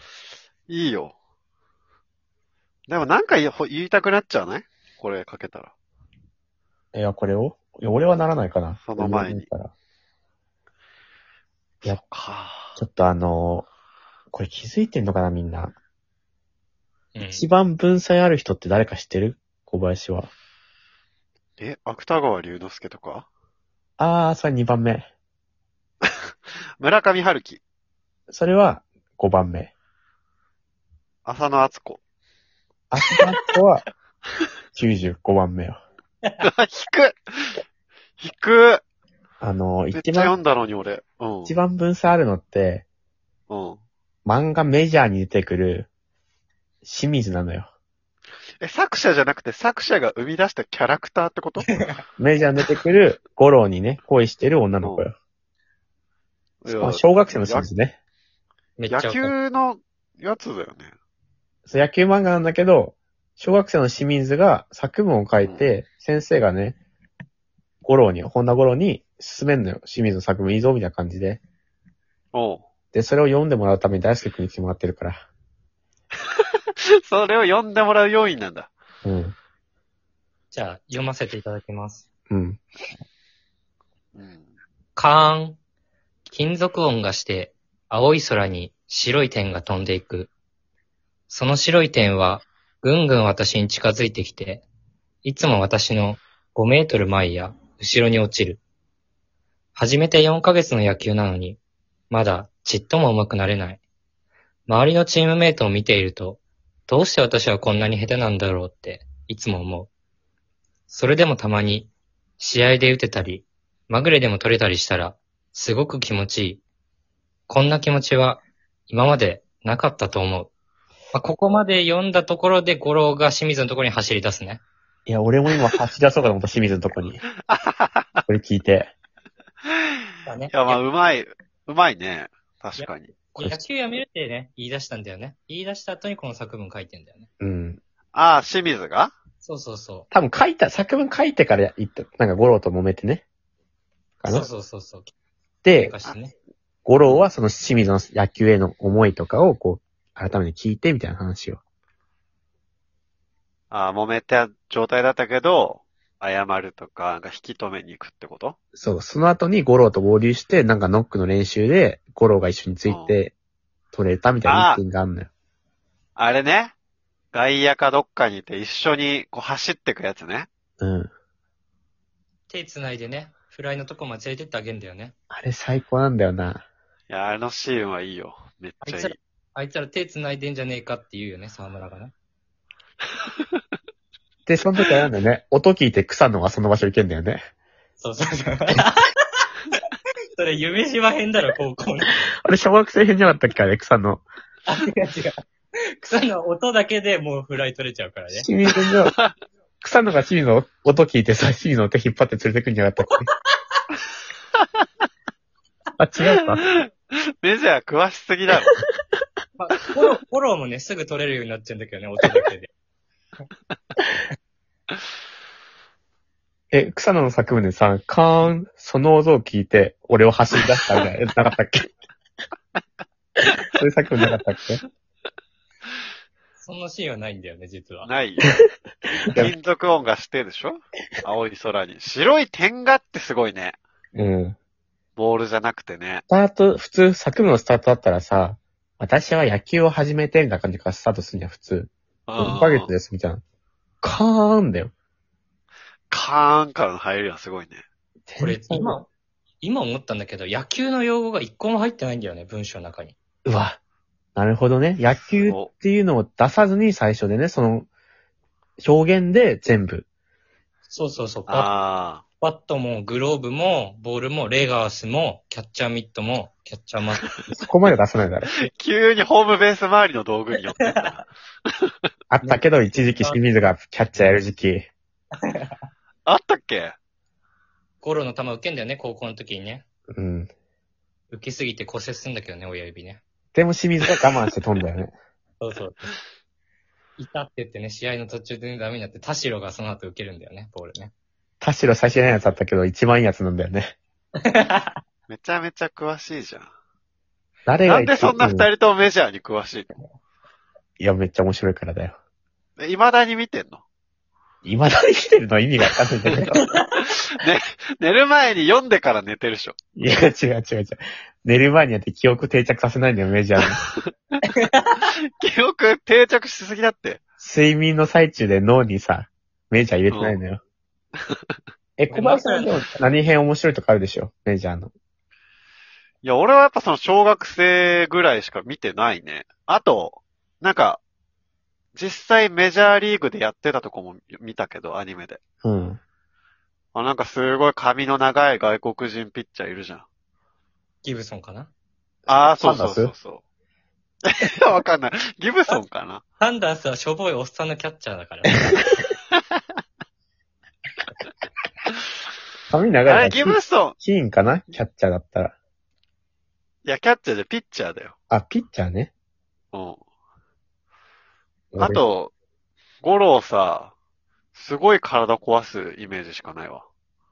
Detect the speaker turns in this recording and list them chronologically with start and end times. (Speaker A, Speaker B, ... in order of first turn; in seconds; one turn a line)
Speaker A: 0.7-1.1
Speaker A: 2.9-5.7
Speaker B: 6.9-9.7
Speaker A: 8.8-9.5
Speaker A: 11.8-12.8
Speaker B: 12.8-13.7
Speaker B: 14.3-15.8
Speaker C: 17.1-17.4
Speaker B: 17.3-20.3
Speaker A: 21.6-23.3
Speaker B: 24.0-25.1
Speaker A: 26.8-27.6
Speaker B: 28.3-29.7
Speaker A: 31.2-32.0
Speaker B: 32.9-33.9
Speaker B: 34.7-35.8
Speaker A: 36.4-37.6
Speaker A: 38.2-38.8
Speaker B: 39.4-40.3
Speaker A: 39.9-41.5
Speaker B: 41.5-42.9
Speaker A: 43.5-43.8
Speaker B: 44.2-45.9
Speaker B: 46.8-47.7
Speaker A: 48.6-51.7
Speaker C: 51.6-52.0
Speaker B: 52.2-55.1
Speaker A: 56.6-57.7
Speaker B: 56.7-58.0
Speaker C: 58.8-59.3
Speaker A: 58.9-60.9
Speaker B: 61.7-66.8
Speaker A: 65.4-65.7
Speaker B: 67.8-71.4
Speaker A: 72.3-72.7
Speaker B: 72.9-75.2
Speaker A: 77.1-78.7
Speaker B: 79.0-79.4
Speaker C: 80.5-82.1
Speaker B: 82.3-82.6
Speaker A: 84.2-84.5
Speaker C: 85.0-85.6
Speaker C: 86.3-90.3
Speaker C: 91.3-94.7
Speaker C: 95.2-98.6
Speaker C: 99.8-101.6
Speaker C: 102.1-103.8
Speaker C: 104.7-109.9
Speaker C: 110.9-116.6
Speaker C: 117.5-120.5
Speaker C: 121.1-124.6
Speaker B: 125.1-127.2
Speaker A: 127.5-128.2
Speaker B: 128.2-128.9
Speaker C: 130.3-130.8
Speaker A: 130.5-133.2
Speaker C: 132.8-137.3
Speaker B: 133.4-133.6
Speaker B: 137.4-137.8
Speaker A: 138.1-139.1
Speaker C: 139.4-140.1
Speaker B: 140.1-143.2
Speaker B: 144.2-144.5
Speaker C: 144.3-145.1
Speaker B: 145.6-145.9
Speaker C: 145.7-146.3
Speaker B: 146.8-151.6
Speaker A: 147.0-147.3
Speaker A: 153.7-158.6
Speaker B: 158.8-163.3
Speaker A: 162.8-163.2
Speaker B: 163.9-165.3
Speaker A: 164.4-164.8
Speaker A: 166.2-166.7
Speaker A: 167.3-170.5
Speaker B: 170.8-171.1
Speaker C: 172.5-175.1
Speaker B: 175.3-176.7
Speaker A: 177.1-179.2
Speaker C: 178.8-182.1
Speaker B: 184.5-187.4
Speaker C: 188.0-189.7
Speaker C: 190.4-192.2
Speaker B: 192.4-194.2
Speaker C: 194.7-195.4
Speaker C: 196.0-198.5
Speaker B: 198.3-199.1
Speaker B: 199.8-203.3
Speaker B: 206.0-206.8
Speaker A: 206.3-206.9
Speaker A: 207.4-208.8
Speaker C: 209.6-212.7
Speaker B: 216.7-221.9
Speaker B: 223.4-224.8
Speaker C: 226.6-228.1
Speaker A: 228.0-228.5
Speaker A: 229.2-233.8
Speaker B: 234.1-234.6
Speaker A: 235.2-236.2
Speaker B: 236.3-243.4
Speaker A: 242.3-242.9
Speaker B: 244.0-244.9
Speaker A: 246.1-247.8
Speaker B: 248.3-249.0
Speaker C: 248.4-249.1
Speaker C: 249.6-253.2
Speaker B: 253.4-253.8
Speaker B: 254.4-257.9
Speaker A: 255.4-255.7
Speaker B: 258.8-260.1
Speaker C: 260.9-261.7
Speaker A: 261.5-262.2
Speaker C: 262.4-267.3
Speaker B: 267.5-268.7
Speaker A: 268.6-271.2
Speaker B: 272.3-274.9
Speaker C: 272.4-273.4
Speaker A: 276.3-276.9
Speaker C: 278.0-279.8
Speaker B: 280.1-280.5
Speaker C: 281.3-283.2
Speaker B: 283.5-285.1
Speaker C: 285.6-286.1
Speaker C: 287.2-291.1
Speaker B: 291.6-293.9
Speaker C: 294.5-295.0
Speaker A: 295.3-296.7
Speaker B: 297.7-298.7
Speaker A: 297.9-299.9
Speaker B: 301.0-302.2
Speaker A: 302.8-303.8
Speaker B: 304.6-306.7
Speaker A: 307.1-309.8
Speaker B: 310.0-313.8
Speaker C: 314.5-314.9
Speaker A: 315.0-317.2
Speaker B: 317.4-320.6
Speaker A: 320.1-320.4
Speaker B: 322.0-324.9
Speaker C: 322.1-322.8
Speaker A: 326.2-331.0
Speaker A: 331.9-335.4
Speaker B: 335.6-336.0
Speaker A: 336.9-340.1
Speaker C: 341.0-341.7
Speaker B: 342.3-343.1
Speaker A: 342.3-343.4
Speaker A: 344.3-346.2
Speaker C: 346.4-348.7
Speaker B: 352.7-355.6
Speaker A: 353.1-354.0
Speaker A: 356.9-358.1
Speaker B: 358.3-359.1
Speaker A: 359.7-360.0
Speaker B: 361.7-362.0
Speaker A: 361.8-362.3
Speaker A: 363.0-363.9
Speaker A: 364.5-366.9